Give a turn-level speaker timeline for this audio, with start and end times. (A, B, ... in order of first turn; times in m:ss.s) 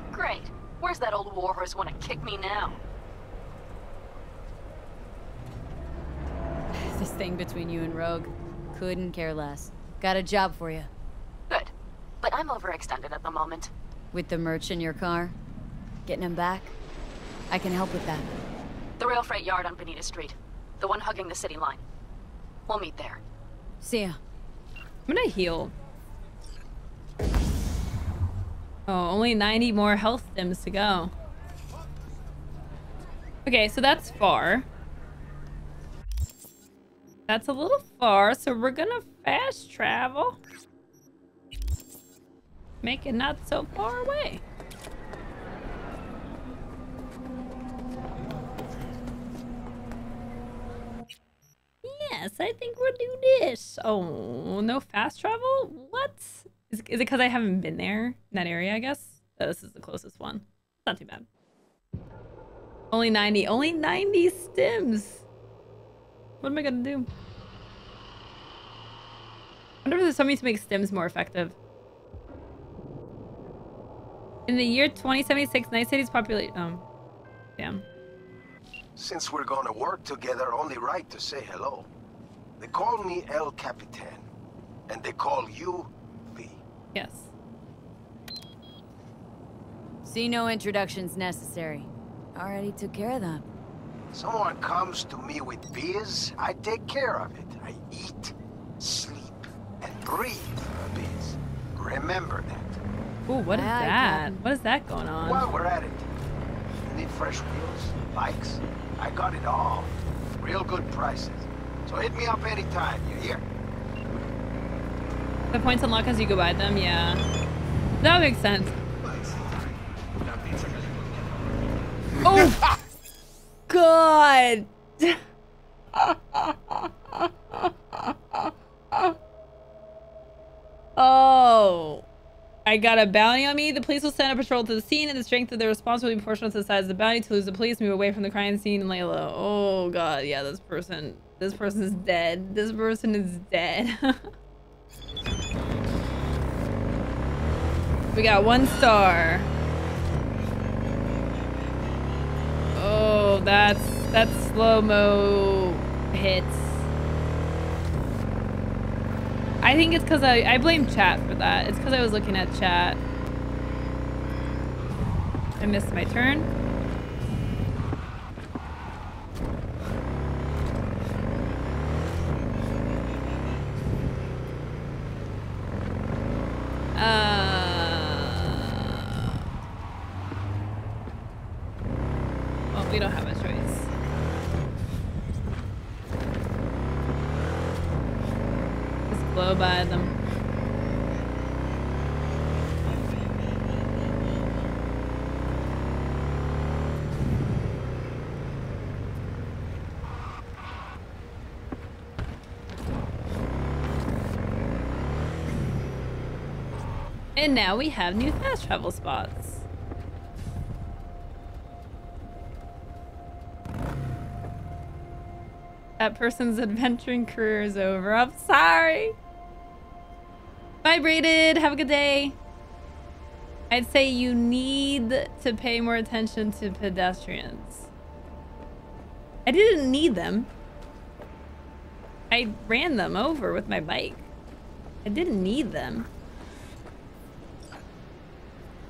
0:00.1-0:02.8 A
0:06.7-0:10.9 B
0:12.2-0:13.7 A
0:14.1-0:15.4 B
0:16.0-0:16.7 B
0:17.5-0:18.4 B
0:19.0-0:21.8 A
0:22.7-0:23.2 A
0:23.8-0:24.2 B
0:25.1-0:25.7 C
0:28.9-0:31.1 C
0:33.4-0:34.7 C
0:37.3-0:40.4 C
0:42.8-0:44.4 C
0:51.8-1:01.2 C
1:02.9-1:05.2 C
1:06.4-1:07.1 C
1:09.8-1:11.6 C
1:14.5-1:16.8 C
1:17.6-1:17.8 C
1:19.0-1:21.8 D
1:22.6-1:24.2 D
1:24.9-1:26.6 D
1:26.9-1:27.3 C
1:30.0-1:33.4 B
1:34.1-1:42.7 D
1:43.3-1:45.5 C
1:43.5-1:44.4 B
1:45.2-1:46.0 D
1:46.9-1:53.4 D
1:55.5-1:57.2 C
1:58.0-1:58.8 C
2:00.2-2:00.9 D
2:02.2-2:02.6 C
2:03.7-2:05.2 C
2:05.9-2:09.1 C
2:11.0-2:12.0 C
2:12.6-2:24.3 C
2:28.1-2:29.5 C
2:32.7-2:36.8 C
2:39.6-2:43.0 C
2:45.6-2:46.5 C
2:57.0-2:59.3 C
3:02.7-3:03.9 C
3:09.1-3:10.1 C
3:27.4-3:29.6 C
3:36.0-3:39.1 C
3:40.8-3:42.4 C
3:43.7-3:47.9 C
3:49.4-3:50.5 C
3:52.3-3:54.3 C
3:55.0-3:56.1 C